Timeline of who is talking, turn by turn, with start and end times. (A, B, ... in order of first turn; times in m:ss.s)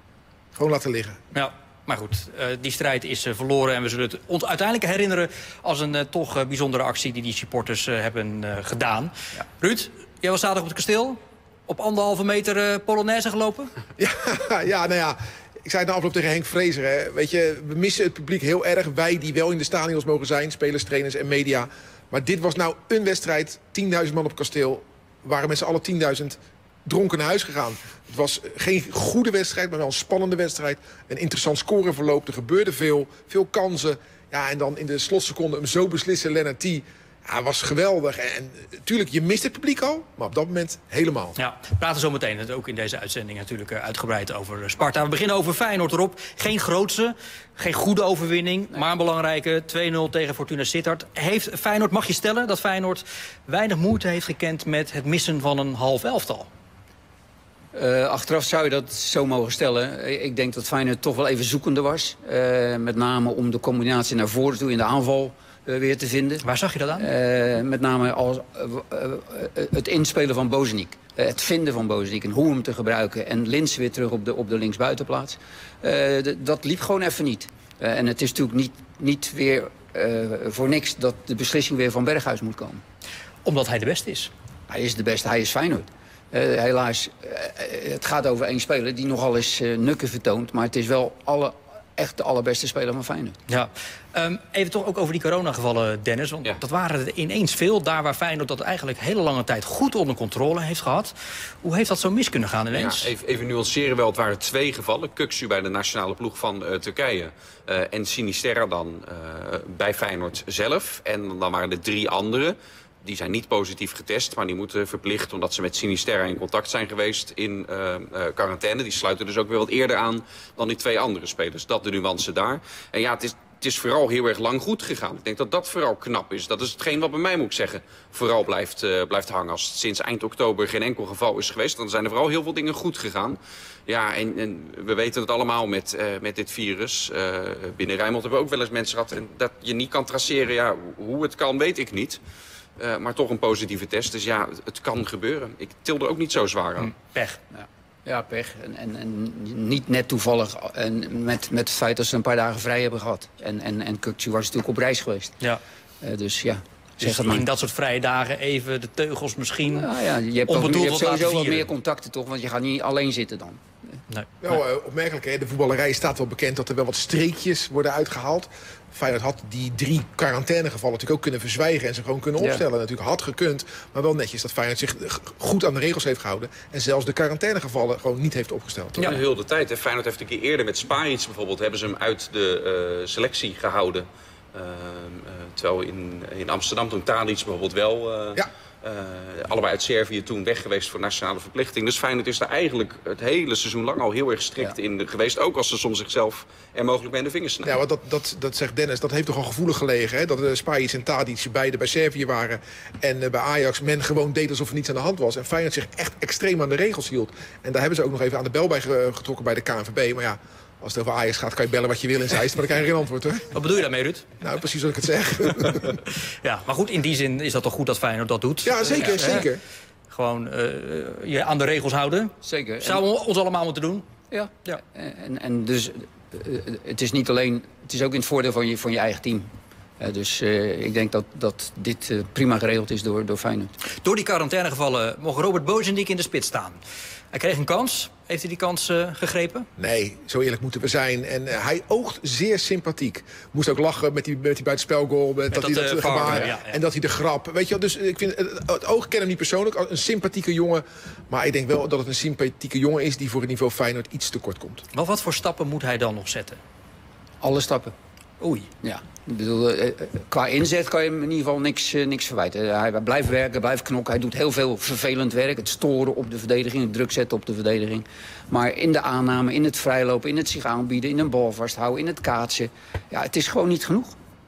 0:00.6-0:01.2 A
0:01.3-0:13.7 B
0:14.0-0:41.4 A
0:41.4-0:56.5 B
0:57.7-1:06.4 C
1:06.4-1:07.1 B
1:07.0-1:22.8 C
1:23.4-1:24.3 B
1:24.7-1:33.4 C
1:33.5-1:43.1 B
1:42.7-2:22.2 D
2:22.8-2:26.9 D
2:26.8-2:27.4 B
2:27.5-2:35.4 C
2:36.0-2:37.4 C
2:37.0-2:39.9 B
2:39.7-2:43.6 C
2:40.5-2:41.7 B
2:44.4-2:59.1 A
2:59.0-3:17.8 D
3:17.6-3:33.5 A
3:33.5-3:34.3 B
3:34.4-3:36.0 A
3:35.6-3:39.5 B
3:38.6-3:39.6 A
3:40.1-3:44.0 B
3:42.4-3:43.0 C
3:44.3-3:49.5 C
3:50.0-3:53.8 C
3:54.0-3:56.8 B
3:57.3-3:59.7 B
3:59.8-4:14.8 A
4:05.5-4:06.8 B
4:14.9-4:16.6 B
4:17.4-4:17.9 C
4:18.4-4:18.7 B
4:18.8-4:34.2 C